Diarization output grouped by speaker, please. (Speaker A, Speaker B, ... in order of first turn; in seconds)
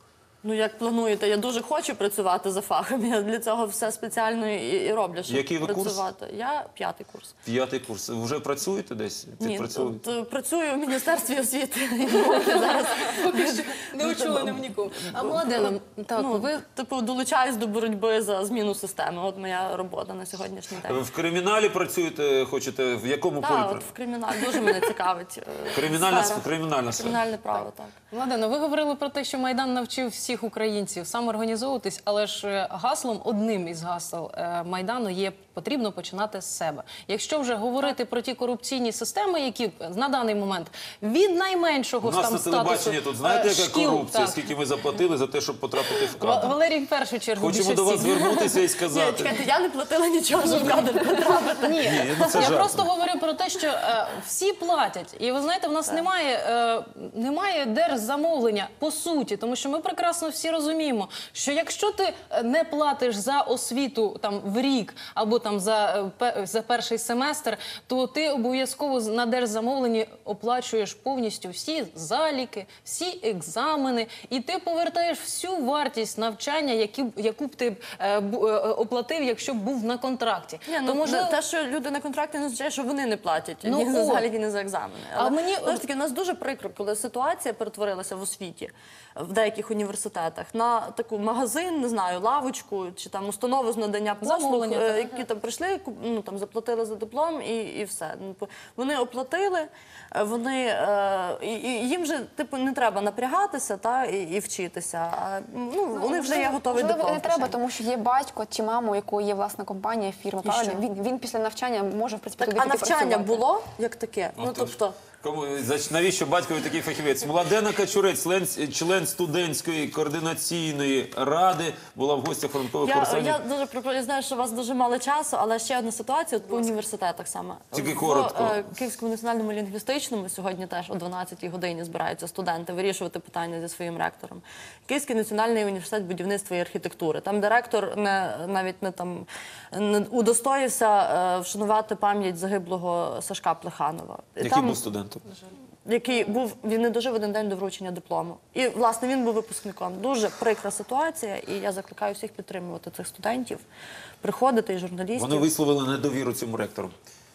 Speaker A: 0.4-7.3, 9.4-21.0, 23.4-27.9, 48.3-52.4, 80.7-107.6, 110.4-110.8, 112.4-115.0, 122.8-144.8, 145.8-153.6, 154.2-155.5
Speaker B: 5.3-6.0, 7.4-10.0, 20.8-24.8, 25.7-27.2, 42.0-46.5, 47.4-49.4, 51.8-52.8, 114.4-123.4, 127.7-128.6, 144.4-145.2, 155.2-156.9
Speaker C: 12.2-16.6, 28.1-44.5, 46.2-48.2, 50.4-81.4, 83.6-84.3, 85.2-85.8, 94.2-95.2
Speaker D: 105.9-113.5